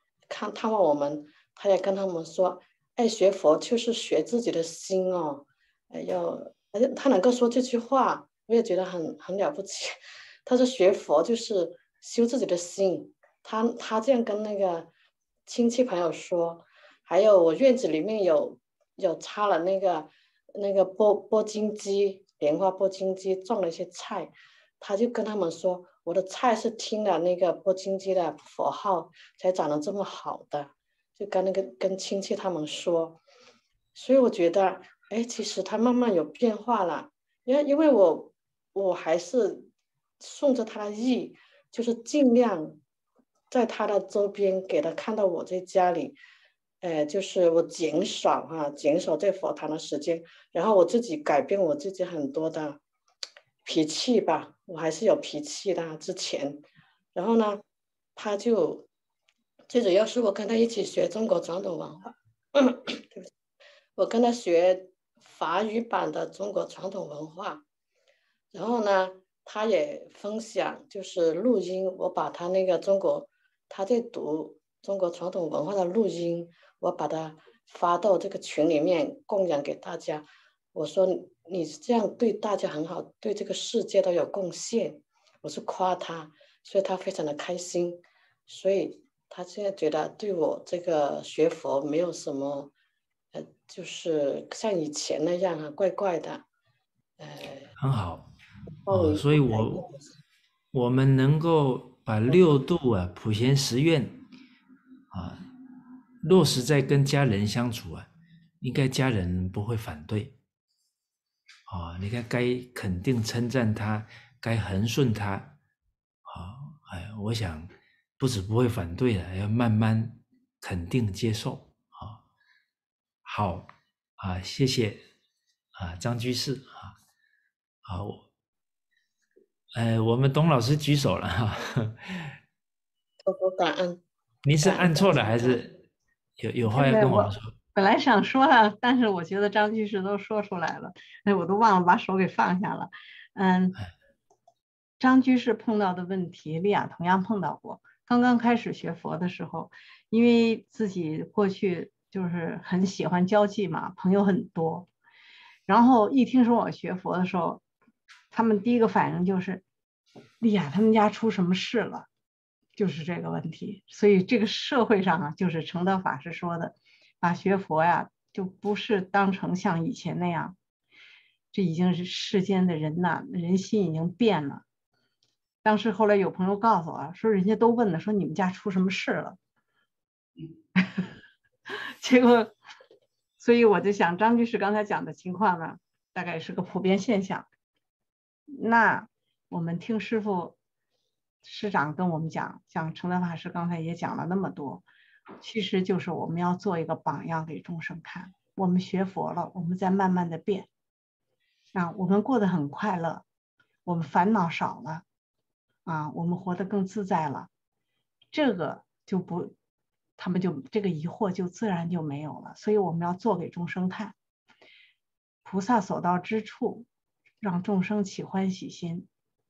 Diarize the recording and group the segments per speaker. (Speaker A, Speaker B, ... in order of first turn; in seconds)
Speaker A: 0.3-14.9, 15.5-33.2, 33.9-39.7, 40.2-42.8, 43.5-46.2, 46.8-52.8, 53.6-56.6, 57.1-57.6, 58.1-58.9, 59.7-63.3, 64.0-67.6, 68.5-92.7, 93.3-96.4, 97.2-97.7, 98.9-100.0, 133.2-134.0, 134.6-135.6
Speaker B: 97.8-98.3, 98.9-99.8, 100.7-104.2, 105.1-105.4, 106.2-108.1, 108.6-110.3, 111.7-115.5, 116.2-122.2, 123.2-125.0, 125.8-126.9, 127.8-128.2, 129.7-132.2, 134.4-135.7, 136.4-137.5
Speaker C: 136.7-143.8, 145.0-154.9, 155.7-157.6, 158.3-159.6, 160.4-162.1, 162.8-170.6, 171.5-174.6, 175.6-179.4, 180.8-181.1, 181.7-182.6, 183.4-187.5, 188.5-190.6, 191.4-194.8, 195.4-200.7, 201.7-203.2, 203.8-205.0, 205.8-207.5, 208.3-209.5, 210.2-214.2, 215.4-216.9, 217.4-219.1